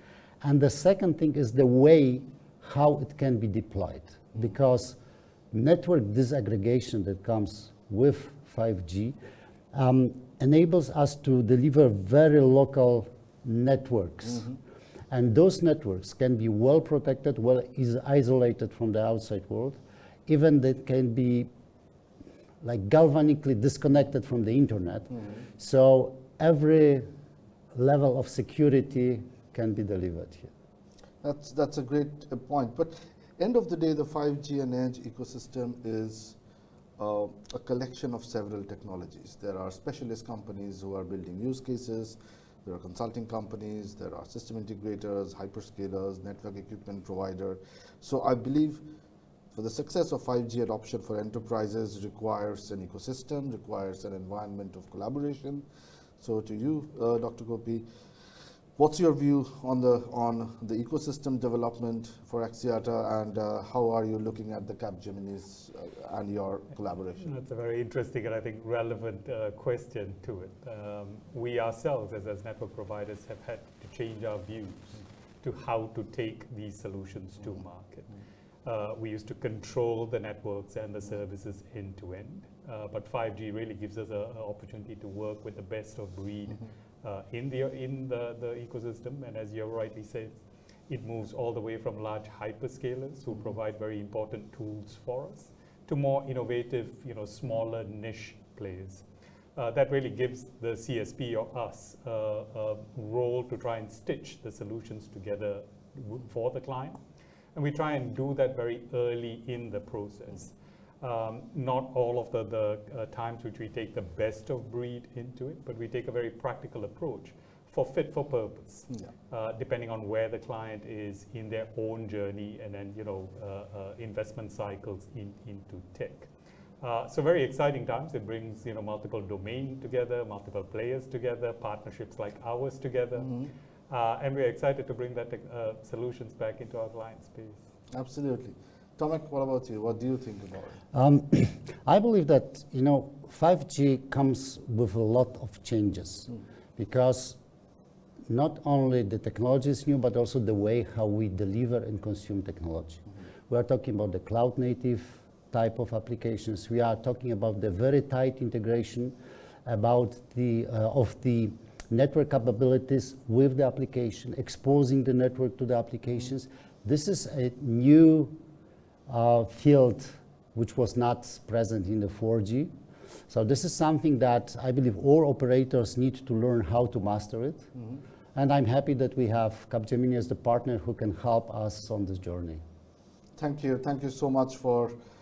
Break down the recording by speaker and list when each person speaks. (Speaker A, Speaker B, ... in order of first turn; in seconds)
Speaker A: 0.4-5.0, 5.5-9.2, 9.7-14.5, 15.1-21.5, 22.6-27.1, 27.7-30.5, 140.9-147.4, 148.3-168.3, 169.1-172.7, 173.3-177.7, 178.3-182.6
Speaker B: 25.1-25.4, 31.2-36.4, 37.0-48.8, 49.5-55.7, 56.2-57.9, 58.8-67.3, 133.2-133.5, 137.9-140.8, 177.7-178.0, 183.4-184.9
Speaker C: 67.2-99.0, 99.6-107.0, 107.5-126.3, 126.8-137.6